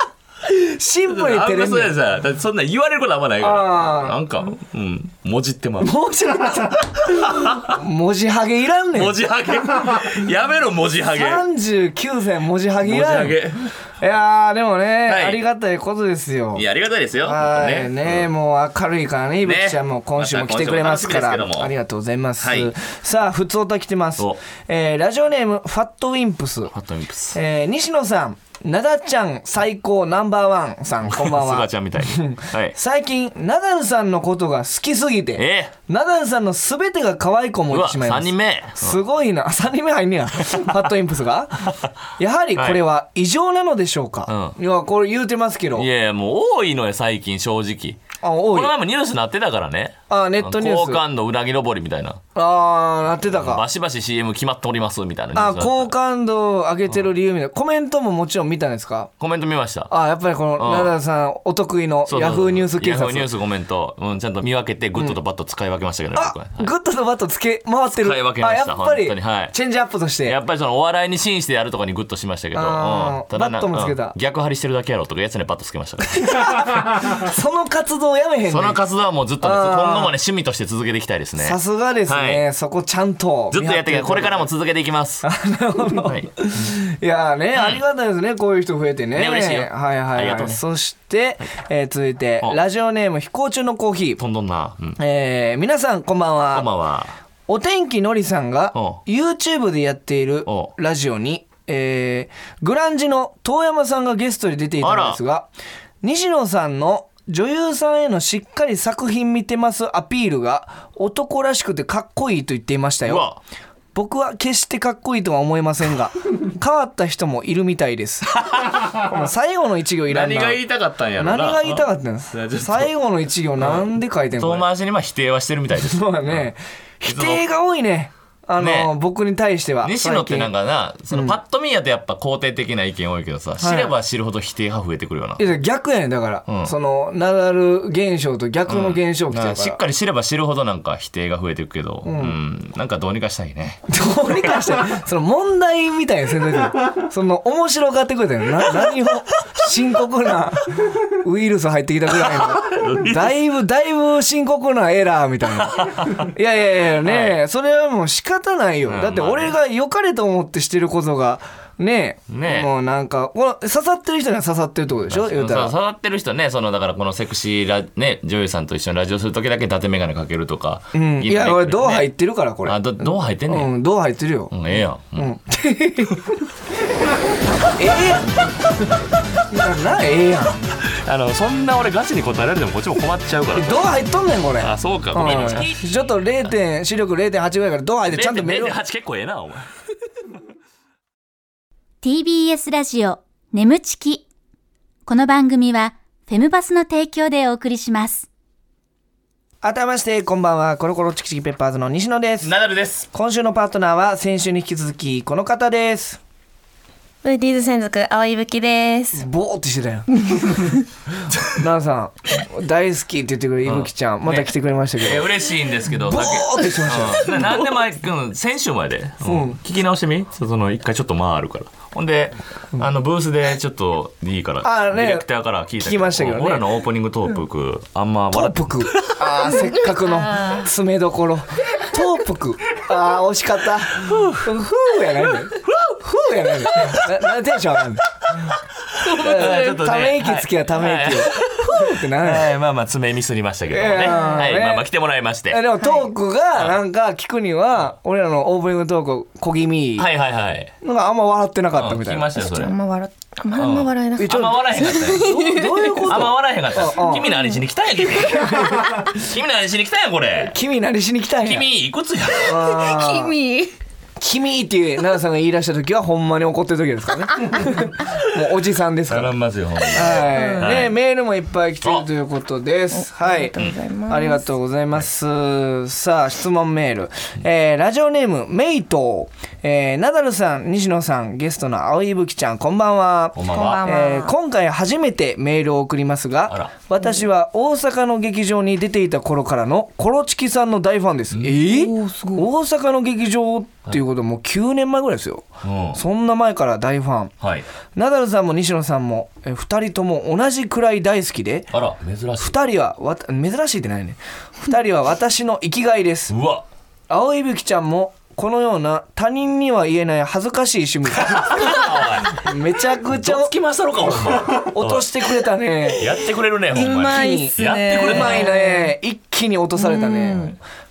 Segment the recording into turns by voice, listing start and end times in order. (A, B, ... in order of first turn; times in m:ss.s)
0:00.4-0:02.0 A
0:01.1-0:05.9 B
0:03.4-0:04.2 A
0:05.8-0:09.2 A
0:07.0-0:07.7 B
0:08.9-0:11.4 B
0:11.1-0:13.4 A
0:12.8-0:13.7 B
0:14.0-0:16.6 A
0:15.1-0:15.4 B
0:16.5-0:18.3 B
0:17.2-0:26.7 A
0:19.4-0:21.7 B
0:22.4-0:22.7 B
0:26.7-0:27.4 B
0:27.3-0:45.9 A
0:31.0-0:32.7 B
0:35.4-0:35.7 B
0:37.7-0:39.0 B
0:42.6-0:42.8 B
0:44.3-0:44.6 B
0:45.7-0:52.2 B
0:48.2-0:48.7 A
0:50.1-0:51.0 A
0:52.3-0:53.6 A
0:53.3-0:55.9 B
0:55.3-0:59.1 A
0:59.2-0:59.9 B
0:59.9-1:03.3 A
1:00.6-1:00.9 B
1:02.1-1:06.7 B
1:06.1-1:10.4 A
1:08.0-1:09.5 B
1:10.2-1:16.8 B
1:12.5-1:14.1 A
1:16.2-1:18.8 A
1:18.5-1:22.4 B
1:19.4-1:20.1 A
1:21.4-1:24.5 A
1:23.5-1:25.3 B
1:25.2-1:34.2 A
1:25.9-1:26.7 B
1:27.5-1:27.8 B
1:29.1-1:30.6 B
1:34.2-1:35.0 B
1:35.0-1:36.7 A
1:36.5-1:37.1 B
1:37.5-1:45.5 A
1:38.7-1:39.0 B
1:40.5-1:40.7 B
1:44.8-1:45.2 B
1:46.0-1:53.2 A
1:53.0-1:53.4 B
1:53.9-1:58.4 A
1:58.3-1:59.0 B
1:59.0-2:00.6 A
2:00.1-2:02.9 B
2:01.2-2:04.6 A
2:03.6-2:06.4 B
2:05.8-2:10.5 A
2:07.0-2:07.4 B
2:08.6-2:08.9 B
2:09.8-2:15.5 B
2:11.1-2:11.4 A
2:13.6-2:13.9 A
2:15.4-2:19.8 A
2:16.5-2:16.7 B
2:18.7-2:23.8 B
2:22.0-2:22.4 A
2:23.9-2:45.7 A
2:32.2-2:33.3 B
2:35.6-2:36.3 B
2:37.0-2:37.4 B
2:38.9-2:39.6 B
2:42.3-2:42.7 B
2:45.1-2:52.1 B
2:50.9-2:54.5 A
2:52.6-2:53.7 B
2:54.5-2:55.3 B
2:55.2-2:56.3 A
2:57.6-2:58.3 A
2:59.5-3:00.6 A
3:00.8-3:03.9 B
3:03.5-3:08.8 A
3:04.6-3:06.1 B
3:08.1-3:09.6 B
3:12.0-3:14.2 C
3:15.0-3:18.2 C
3:19.6-3:22.5 A
3:22.4-3:23.0 B
3:23.1-3:26.2 A
3:27.2-3:29.2 D
3:29.1-3:30.7 A
3:30.2-3:30.7 D
3:31.3-3:31.6 B
3:31.5-3:35.3 A
3:33.6-3:49.7 B
3:36.0-3:37.5 A
3:39.2-3:39.6 A
3:44.6-3:45.3 A
3:45.8-3:46.6 A
3:48.3-3:58.5 A
3:49.7-3:50.6 D
3:54.0-3:54.5 B
3:55.6-3:56.0 B
3:56.6-3:57.0 B
3:58.3-4:05.6 B
3:59.0-3:59.8 D
3:59.1-4:02.6 A
4:03.7-4:04.9 A
4:04.0-4:04.5 D
4:05.5-4:10.1 A
4:05.8-4:06.1 D
4:10.0-4:10.7 B
4:10.8-4:12.3 A
4:11.7-4:12.7 B
4:12.4-4:16.1 D
4:13.6-4:15.4 B
4:14.2-4:17.3 A
4:16.0-4:20.5 B
4:18.3-4:19.0 A
4:20.4-4:21.7 A
4:21.4-4:22.9 B
4:22.4-4:23.3 A
4:22.7-4:23.7 D
4:24.2-4:33.6 A
4:28.0-4:28.2 B
4:29.1-4:31.0 B
4:30.2-4:30.7 D
4:31.8-4:32.1 B
4:32.9-4:34.4 D
4:34.1-4:57.3 A
4:43.3-4:43.8 B
4:43.5-4:44.3 D
4:51.3-4:51.6 B
4:51.6-4:52.5 D
4:55.6-4:56.0 B
4:57.4-4:57.6 B
4:57.9-5:01.7 A
5:01.7-5:02.6 B
5:02.4-5:06.4 A
5:06.3-5:06.6 B
5:07.1-5:13.5 A
5:11.1-5:12.5 B
5:13.1-5:15.1 B
5:14.1-5:16.2 A
5:15.8-5:18.5 B
5:16.7-5:18.9 D
5:16.7-5:20.6 A
5:19.8-5:20.6 D